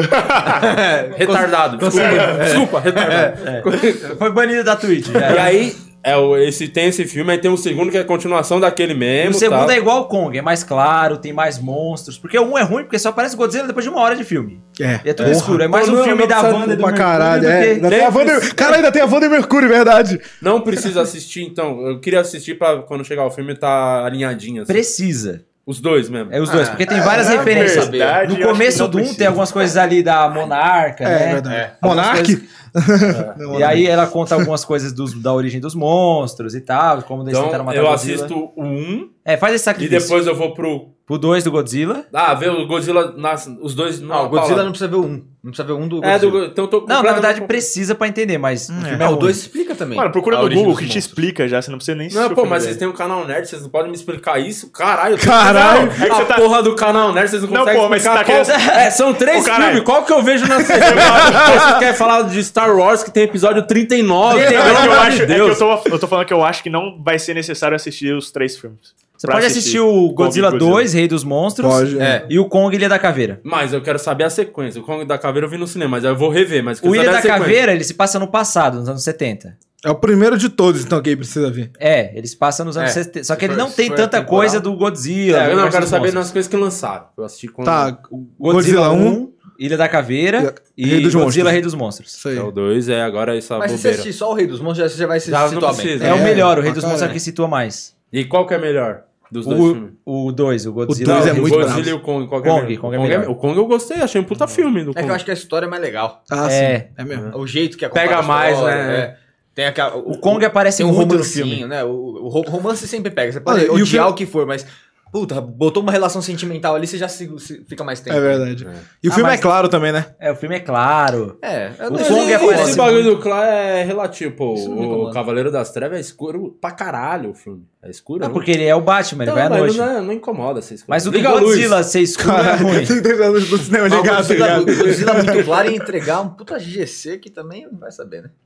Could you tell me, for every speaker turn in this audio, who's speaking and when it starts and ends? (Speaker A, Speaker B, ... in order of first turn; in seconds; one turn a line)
Speaker A: 0.1-0.4
Speaker B: 0.4-3.4
Speaker C: 1.1-4.1
Speaker D: 3.4-5.6
Speaker C: 5.2-9.7
Speaker D: 9.2-17.9
Speaker E: 14.8-15.8
Speaker C: 15.6-16.8
Speaker E: 16.5-20.2
Speaker C: 17.8-18.8
Speaker C: 20.4-24.8
Speaker D: 24.7-25.4
Speaker C: 25.6-26.4
Speaker D: 26.3-32.4
Speaker B: 26.4-28.2
Speaker A: 27.1-29.4
Speaker E: 31.0-34.5
Speaker B: 31.5-31.8
Speaker C: 33.0-33.8
Speaker D: 33.5-38.3
Speaker C: 37.3-39.1
Speaker D: 39.2-40.1
Speaker C: 39.8-40.9
Speaker D: 41.1-42.1
Speaker C: 42.1-44.7
Speaker B: 44.1-46.4
Speaker C: 46.0-47.6
Speaker D: 46.8-49.4
Speaker E: 48.7-49.1
Speaker B: 49.0-51.2
Speaker A: 49.9-52.8
Speaker C: 52.1-65.7
Speaker E: 55.2-56.0
Speaker A: 55.4-56.5
Speaker A: 57.5-59.9
Speaker D: 58.5-58.9
Speaker A: 60.7-61.8
Speaker E: 60.8-61.8
Speaker D: 64.2-65.1
Speaker A: 64.4-70.9
Speaker D: 69.2-73.4
Speaker E: 71.6-72.2
Speaker B: 72.0-72.3
Speaker C: 73.4-77.6
Speaker D: 76.8-79.5
Speaker E: 79.8-81.7
Speaker D: 81.8-86.3
Speaker B: 82.8-84.7
Speaker C: 85.3-88.0
Speaker E: 87.6-89.2
Speaker D: 88.4-92.2
Speaker E: 90.4-91.6
Speaker E: 92.2-92.5
Speaker C: 92.3-94.1
Speaker B: 93.6-97.2
Speaker C: 95.2-96.4
Speaker E: 96.0-97.1
Speaker D: 96.0-97.9
Speaker C: 98.1-99.9
Speaker D: 99.4-103.3
Speaker E: 100.9-102.0
Speaker C: 101.0-105.2
Speaker B: 104.9-106.2
Speaker E: 106.3-107.3
Speaker D: 106.4-106.9
Speaker B: 107.3-118.5
Speaker C: 107.9-109.1
Speaker D: 110.1-111.6
Speaker E: 113.5-114.1
Speaker E: 118.1-120.1
Speaker D: 119.1-119.5
Speaker D: 120.2-123.2
Speaker B: 121.4-122.9
Speaker C: 121.9-128.5
Speaker B: 124.5-125.2
Speaker D: 128.2-129.9
Speaker C: 129.2-131.8
Speaker D: 130.9-133.0
Speaker E: 132.2-135.8
Speaker B: 133.9-138.3
Speaker C: 134.5-135.5